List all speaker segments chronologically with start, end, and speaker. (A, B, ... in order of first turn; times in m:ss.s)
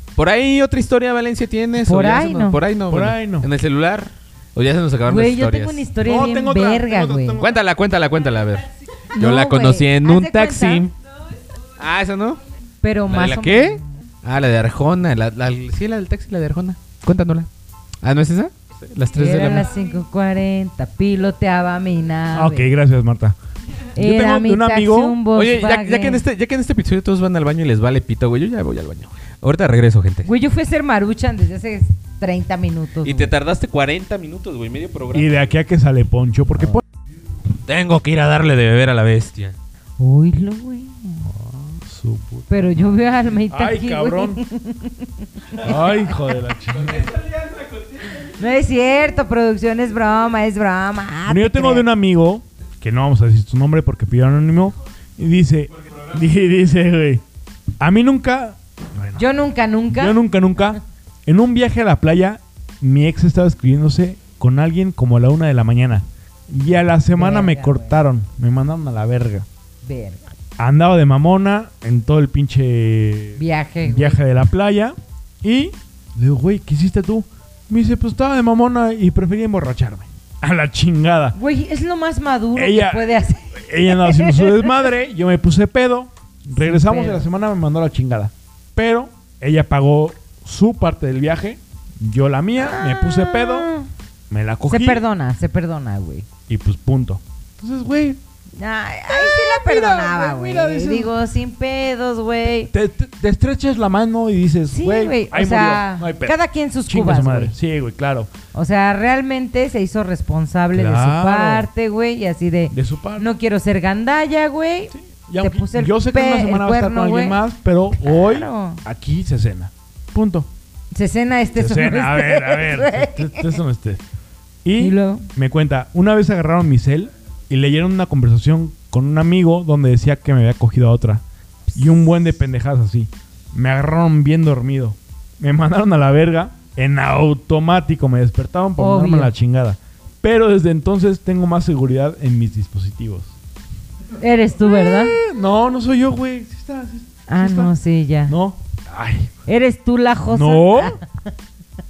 0:00.2-0:05.8 A
0:01.8-0:02.6 B
0:02.9-0:03.5 C
0:05.0-0:07.4 B
0:06.0-0:07.6 C
0:07.4-0:10.9 A
0:09.1-0:10.8 B
0:11.8-0:12.4 A
0:12.8-0:13.8 B
0:13.1-0:17.5 A
0:18.0-0:19.7 A
0:19.1-0:22.7 B
0:22.3-0:23.4 C
0:24.0-0:26.2 B
0:24.0-0:25.2 C
0:25.3-0:30.3 A
0:30.2-0:33.3 B
0:33.0-0:35.4 A
0:35.1-0:36.8 C
0:37.6-0:39.6 A
0:40.0-0:41.3 B
0:41.3-0:42.5 C
0:42.5-0:46.0 B
0:43.5-0:44.4 C
0:45.6-0:47.2 C
0:46.9-0:48.1 A
0:48.2-0:51.8 B
0:51.3-0:57.2 C
0:57.8-0:59.2 C
0:59.2-1:00.2 B
0:59.9-1:09.4 C
1:07.1-1:08.0 B
1:09.8-1:10.2 B
1:10.6-1:21.4 C
1:13.4-1:14.2 B
1:21.3-1:24.7 B
1:22.5-1:33.7 C
1:26.5-1:27.2 B
1:32.6-1:33.9 B
1:34.3-1:35.0 C
1:34.7-1:36.3 B
1:36.5-1:38.2 C
1:38.6-1:42.7 B
1:39.1-1:41.1 C
1:42.7-1:48.3 C
1:44.7-1:47.5 B
1:48.5-1:57.4 B
1:50.7-1:51.7 C
1:52.7-1:53.3 C
1:54.9-2:00.5 C
1:58.0-1:58.8 B
2:00.9-2:03.5 B
2:01.5-2:04.0 C
2:04.6-2:11.2 C
2:04.8-2:05.3 B
2:11.7-2:12.0 B
2:11.8-2:23.3 C
2:18.8-2:19.3 B
2:24.2-2:25.2 B
2:24.6-2:27.7 C
2:27.3-2:28.3 B
2:28.3-2:29.3 C
2:29.4-2:31.1 B
2:30.3-2:31.0 C